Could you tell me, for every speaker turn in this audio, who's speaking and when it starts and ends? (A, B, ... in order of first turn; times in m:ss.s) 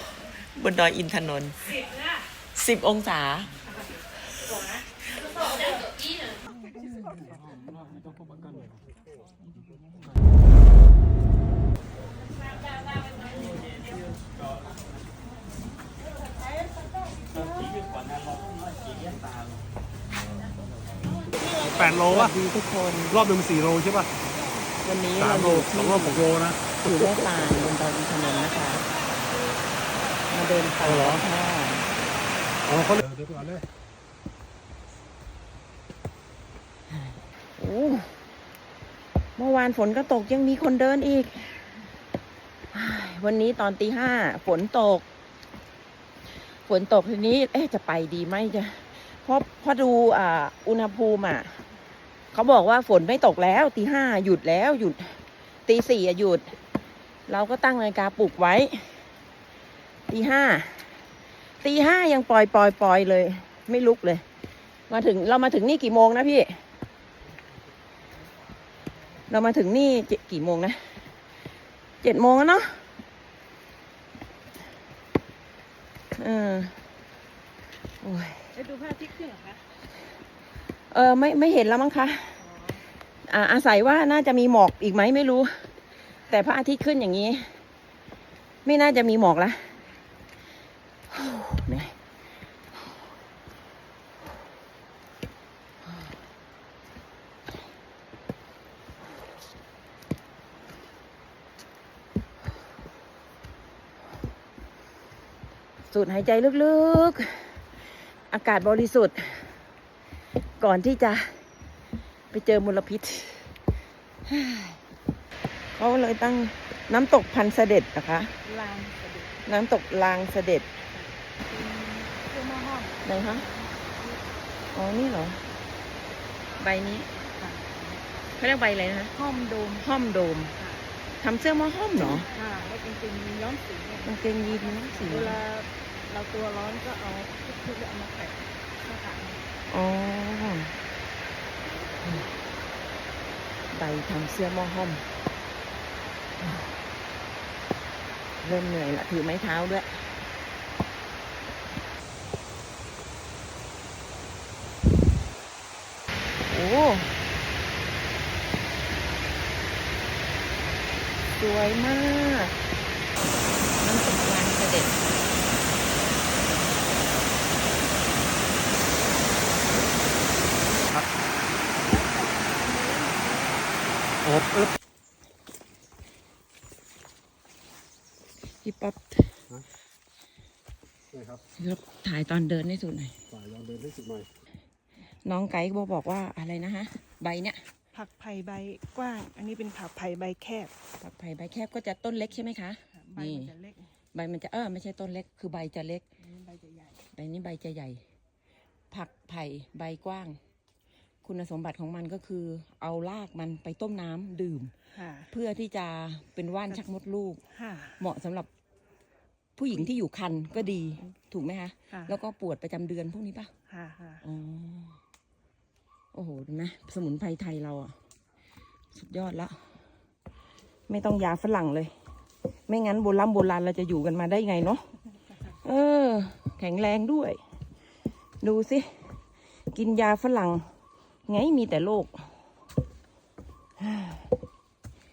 0:00.5-0:01.8 A
0:02.5-0:03.5 A
0:05.2-0:05.8 A
0:21.6-0:22.4 B
0:21.9-0:23.2 A
0:23.1-0:24.1 B
0:24.8-0:26.3 A
0:25.2-0:27.2 B
0:26.8-0:28.8 A
0:30.3-0:31.9 A
0:30.8-0:31.2 B
0:32.6-0:33.7 B
0:37.0-0:38.1 A
0:39.4-0:41.6 A
0:42.7-0:45.0 A
0:46.4-0:51.6 A
0:52.3-0:56.5 A
0:57.3-0:59.0 A
1:00.1-1:00.9 A
1:01.6-1:04.2 A
1:04.9-1:06.6 A
1:09.3-1:11.0 A
1:12.0-1:12.8 A
1:16.1-1:16.8 A
1:18.0-1:18.5 A
1:18.5-1:19.7 C
1:20.9-1:22.4 A
1:22.4-1:22.8 C
1:23.2-1:25.7 A
1:26.3-1:27.6 A
1:28.6-1:29.8 A
1:31.1-1:31.9 A
1:45.9-1:47.6 A
1:48.3-1:49.6 A
1:50.6-1:51.4 A
1:52.3-1:53.6 A
1:54.2-1:54.8 A
1:55.7-1:58.3 A
1:58.4-1:59.4 C
1:59.4-2:00.7 A
2:01.0-2:04.3 C
2:03.0-2:03.4 A
2:04.7-2:05.4 A
2:06.6-2:07.1 A
2:07.1-2:08.1 C
2:08.4-2:09.1 A
2:09.1-2:09.8 C
2:09.7-2:10.6 A
2:10.6-2:10.8 C
2:11.2-2:12.3 A
2:12.1-2:19.4 C
2:14.0-2:15.4 A
2:19.7-2:20.7 A
2:23.7-2:25.0 A
2:28.4-2:30.1 A
2:36.4-2:37.1 A
2:41.4-2:42.5 A
2:43.7-2:45.0 A
2:51.7-2:54.2 C
2:54.2-2:54.7 B
2:58.6-2:59.4 A
3:01.1-3:01.4 B
3:01.6-3:03.2 A
3:03.3-3:04.3 B
3:05.2-3:07.6 A
3:07.9-3:10.7 C
3:11.0-3:13.5 A
3:12.9-3:13.9 C
3:14.1-3:16.0 A
3:16.2-3:17.0 C
3:17.1-3:18.0 A
3:18.9-3:20.4 A
3:21.2-3:24.7 A
3:24.9-3:25.3 C
3:25.3-3:27.4 A
3:27.5-3:28.0 C
3:28.0-3:28.5 A
3:29.6-3:33.5 A
3:31.9-3:32.2 C
3:33.7-3:34.2 C
3:34.2-3:35.0 A
3:36.1-3:37.9 A
3:38.9-3:39.6 A
3:40.9-3:41.9 A
3:42.7-3:44.8 A
3:45.4-3:47.4 A
3:48.4-3:49.2 A
3:49.7-3:50.6 A
3:51.3-3:52.2 A
3:53.8-3:54.3 A